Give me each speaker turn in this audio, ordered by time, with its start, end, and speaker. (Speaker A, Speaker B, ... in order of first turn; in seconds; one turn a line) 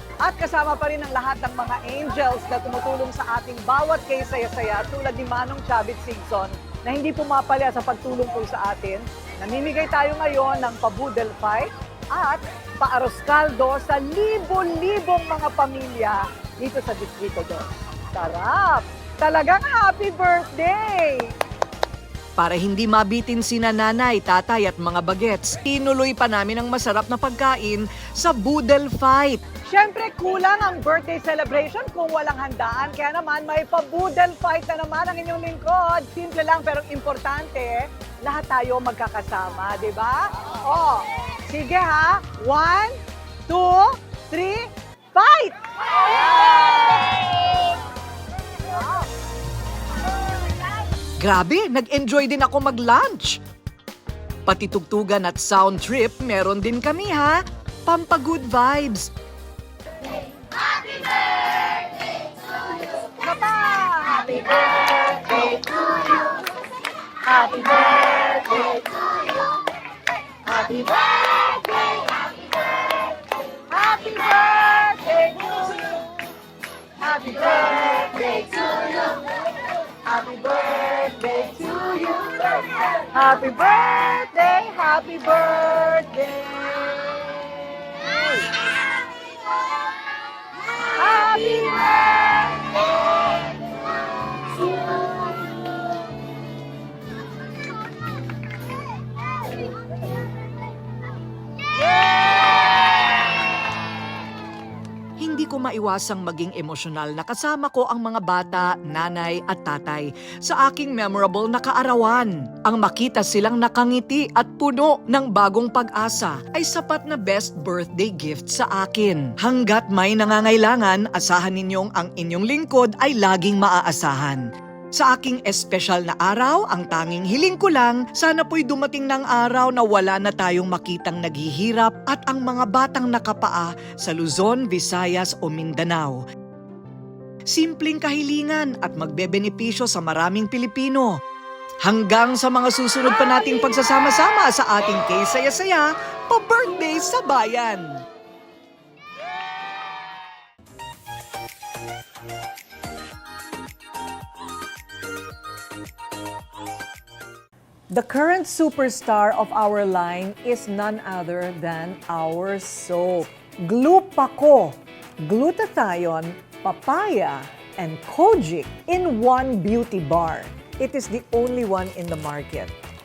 Speaker A: 0.2-21.3
Speaker B: 22.4-29.4
Speaker A: 29.7-43.0
Speaker A: 43.5-47.8
Speaker A: 48.6-49.1
Speaker B: 51.2-53.4
Speaker B: 54.5-59.1
Speaker A: 63.0-66.4
Speaker A: 67.3-69.4
Speaker A: 70.5-73.0
Speaker A: 73.7-76.1
Speaker A: 77.0-79.3
Speaker A: 80.0-87.1
Speaker A: 88.1-88.5
Speaker A: 91.0-92.7
Speaker A: 94.7-95.3
Speaker B: 105.2-124.5
Speaker B: 125.0-136.2
Speaker B: 137.5-141.1
Speaker B: 141.8-148.0
Speaker A: 157.9-172.7